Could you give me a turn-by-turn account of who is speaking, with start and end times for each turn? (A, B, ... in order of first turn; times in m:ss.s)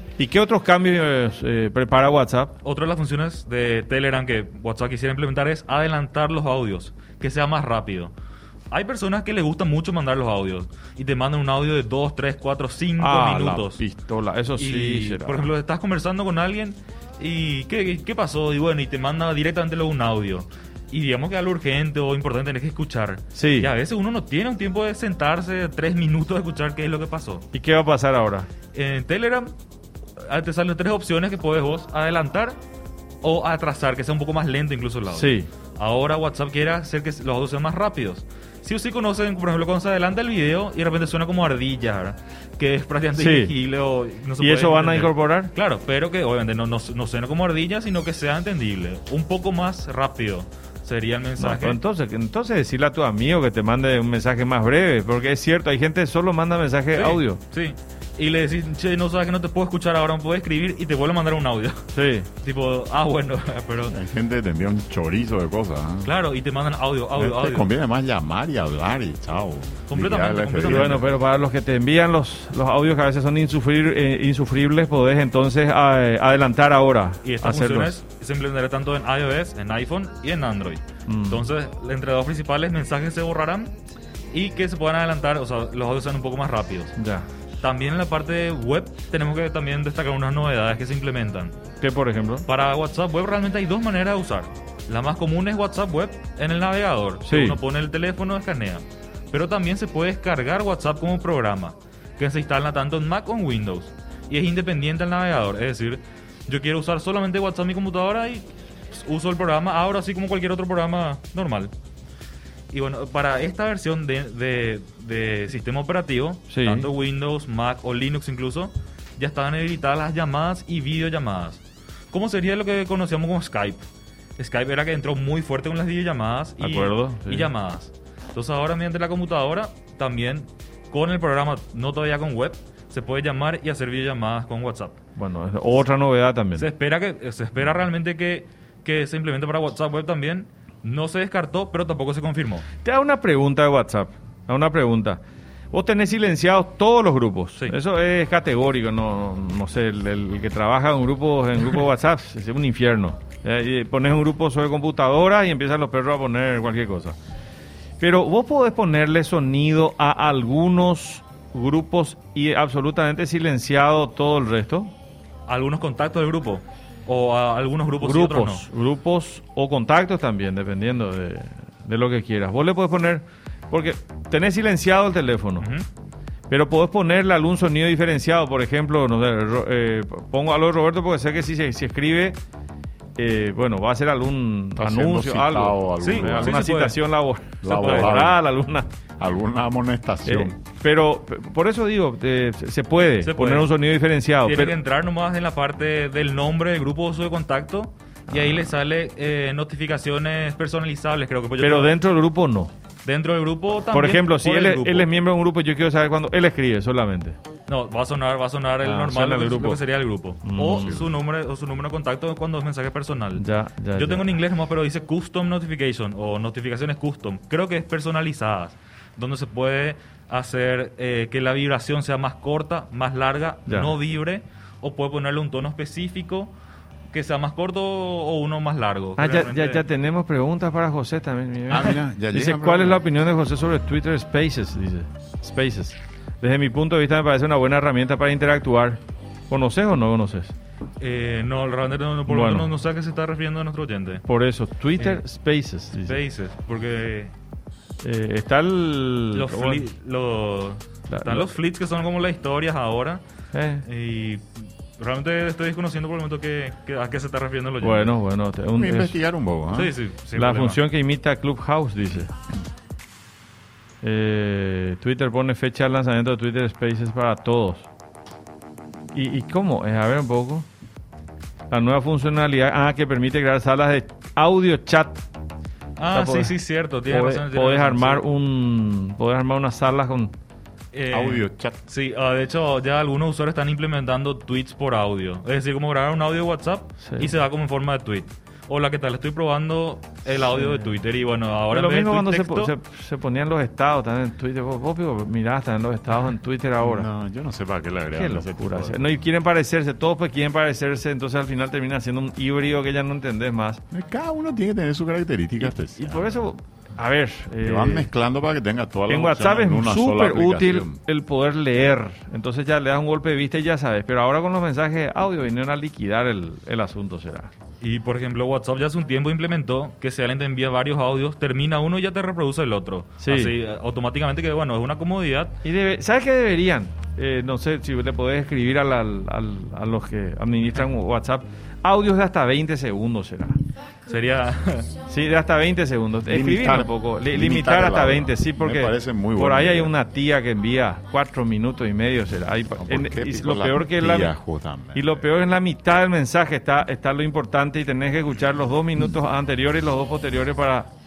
0:00.2-0:02.5 A
0:02.6-0:08.1 B
0:08.7-0:13.8 B
0:13.0-0:15.5 A
0:14.6-0:27.5 B
0:23.3-0:23.7 A
0:27.5-0:28.5 A
0:28.7-0:29.5 B
0:30.2-0:32.6 B
0:33.2-0:51.8 B
0:35.1-0:35.5 A
0:43.1-0:43.5 A
0:44.4-0:45.5 A
0:51.4-0:57.4 A
0:57.0-1:01.9 B
1:01.9-1:02.3 A
1:02.4-1:03.9 B
1:03.9-1:06.1 C
1:06.0-1:07.7 B
1:07.2-1:11.1 C
1:09.9-1:11.0 B
1:10.6-1:18.0 A
1:17.2-1:23.7 B
1:21.1-1:21.4 A
1:24.3-1:26.9 B
1:27.0-1:27.3 A
1:27.6-1:31.6 B
1:31.8-1:32.4 A
1:32.5-1:51.7 B
1:37.2-1:37.6 A
1:52.7-2:03.8 B
1:56.5-1:56.9 A
2:04.4-2:15.0 B
2:06.6-2:07.5 A
2:15.2-2:16.7 A
2:16.6-2:22.6 B
2:22.8-2:37.2 A
2:38.0-2:44.9 A
2:45.5-2:48.6 B
2:48.0-2:55.7 A
2:55.6-2:55.8 B
2:56.5-3:02.4 A
3:03.2-3:08.9 A
3:04.8-3:06.7 C
3:06.0-3:07.0 B
3:07.6-3:08.4 C
3:07.7-3:08.2 B
3:09.2-3:10.5 C
3:10.2-3:14.7 A
3:13.2-3:13.7 B
3:14.4-3:22.0 B
3:18.3-3:18.6 A
3:21.6-3:22.7 A
3:23.0-3:25.1 B
3:23.9-3:27.4 A
3:27.7-3:46.5 B
3:28.8-3:29.8 A
3:30.4-3:31.0 A
3:30.8-3:31.1 C
3:33.4-3:34.3 A
3:43.7-3:43.9 A
3:47.1-3:49.8 B
3:49.2-4:00.5 A
3:51.7-3:53.0 C
4:01.0-4:04.2 B
4:02.3-4:02.7 A
4:04.2-4:06.2 A
4:05.0-4:05.2 B
4:06.0-4:07.3 B
4:08.0-4:09.9 A
4:09.3-4:13.2 B
4:11.1-4:11.5 A
4:13.5-4:13.8 A
4:13.8-4:18.1 B
4:17.8-4:19.1 A
4:18.7-4:19.9 C
4:19.7-4:20.8 B
4:20.4-4:22.3 A
4:24.0-4:27.9 A
4:29.1-4:30.7 A
4:31.7-4:35.2 A
4:36.0-4:38.2 B
4:36.1-4:36.5 A
4:37.1-4:40.3 A
4:40.9-4:52.7 B
4:41.1-4:41.8 C
4:47.0-4:47.3 A
4:50.5-4:50.9 A
4:51.7-4:57.1 A
4:56.8-4:59.2 C
4:58.1-5:03.8 A
5:03.9-5:06.5 C
5:05.6-5:08.1 A
5:07.6-5:11.0 C
5:09.1-5:17.5 A
5:17.8-5:25.6 B
5:23.2-5:23.5 A
5:25.6-5:33.6 A
5:34.1-5:34.9 B
5:35.1-5:44.3 A
5:36.3-5:39.9 C
5:42.8-5:45.2 C
5:44.9-5:50.9 A